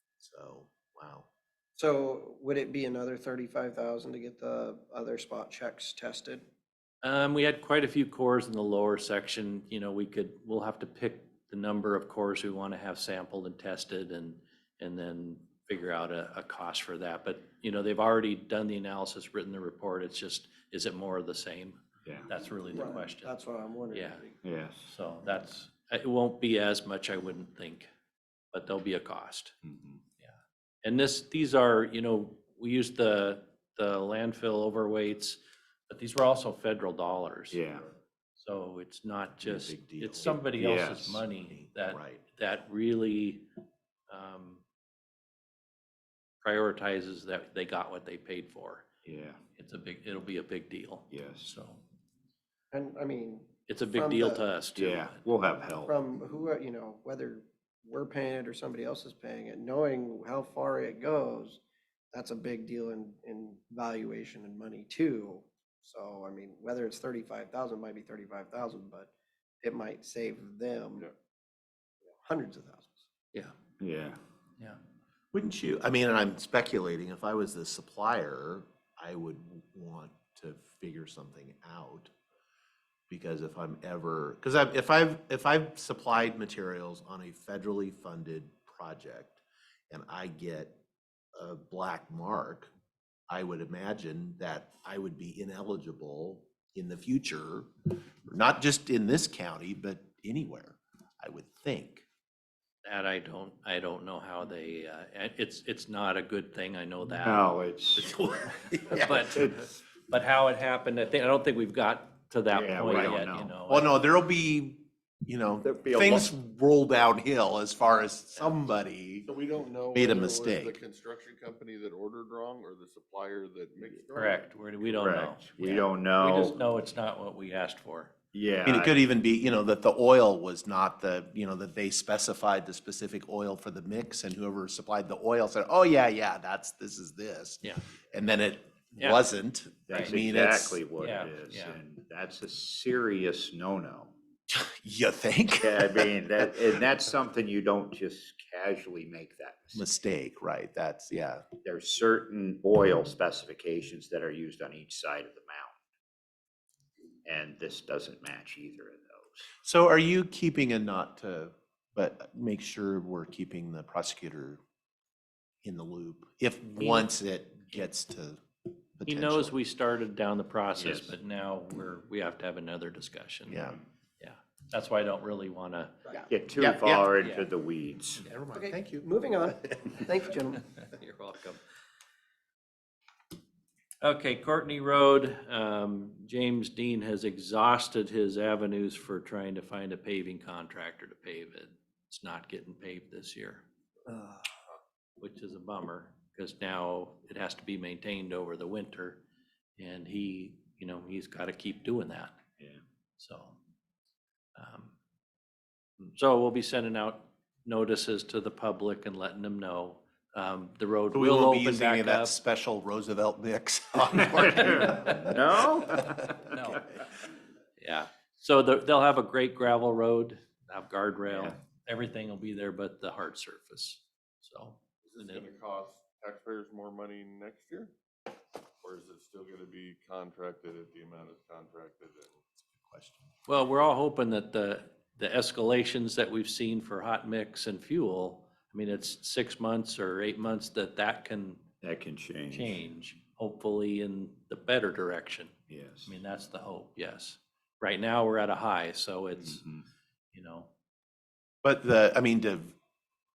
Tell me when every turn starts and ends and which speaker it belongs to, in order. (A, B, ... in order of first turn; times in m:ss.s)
0:00.2-0:01.2 A
0:01.8-0:06.4 B
0:07.0-0:23.3 C
0:22.7-0:24.3 B
0:23.9-0:27.9 C
0:24.4-0:24.9 D
0:28.5-0:29.6 C
0:29.6-0:30.0 D
0:30.2-0:37.6 C
0:37.5-0:37.9 D
0:38.4-0:43.4 C
0:39.4-0:40.4 A
0:40.5-0:41.2 D
0:41.5-0:42.2 A
0:44.1-0:44.6 C
0:46.4-0:48.8 C
0:49.0-0:49.4 D
0:49.6-0:51.8 C
0:51.1-0:51.5 D
0:52.7-0:54.4 B
0:53.7-0:55.2 C
0:54.8-0:56.0 D
0:55.8-1:01.6 B
1:02.1-1:09.1 B
1:09.6-1:11.1 B
1:12.2-1:13.0 B
1:13.8-1:14.2 D
1:15.3-1:22.1 A
1:23.1-1:30.8 A
1:31.4-1:32.7 A
1:33.3-1:37.7 A
1:38.2-1:42.0 A
1:42.8-1:53.9 C
1:47.2-1:48.1 D
1:48.1-1:49.4 A
1:52.5-1:53.5 D
1:53.7-1:59.3 A
1:55.6-1:56.3 D
1:59.2-2:04.4 E
1:59.9-2:00.7 A
2:04.1-2:08.1 C
2:05.0-2:06.6 D
2:08.3-2:09.0 D
2:08.6-2:20.8 A
2:19.0-2:19.3 C
2:19.9-2:24.1 D
2:21.0-2:21.8 C
2:24.5-2:26.5 A
2:25.6-2:29.8 D
2:29.7-2:31.4 A
2:31.6-2:35.7 D
2:37.2-2:39.4 D
2:39.6-2:44.6 A
2:45.6-2:48.4 A
2:46.8-2:47.1 C
2:49.0-2:49.6 A
2:49.0-2:56.0 C
2:50.8-2:51.1 D
2:53.5-2:53.8 A
2:56.3-2:58.2 D
2:56.6-2:57.1 A
2:57.2-2:57.5 C
2:58.2-3:00.0 A
2:58.5-3:00.6 B
3:00.8-3:01.6 C
3:04.0-3:13.6 C
3:14.1-3:14.4 B
3:15.2-3:19.2 C
3:19.8-3:22.4 C
3:23.2-3:23.6 C
3:24.6-3:24.9 C
3:26.1-3:32.3 C
3:31.1-3:37.0 A
3:34.4-3:36.5 D
3:34.5-3:35.3 C
3:36.5-3:36.8 C
3:37.8-3:45.5 C
3:45.0-3:47.9 E
3:48.8-3:52.4 E
3:52.6-3:53.3 A
3:53.5-4:01.6 C
4:01.8-4:02.8 D
4:02.5-4:05.5 C
4:05.7-4:06.1 D
4:06.0-4:09.6 C
4:09.4-4:09.9 D
4:10.3-4:10.7 C
4:11.6-4:12.7 A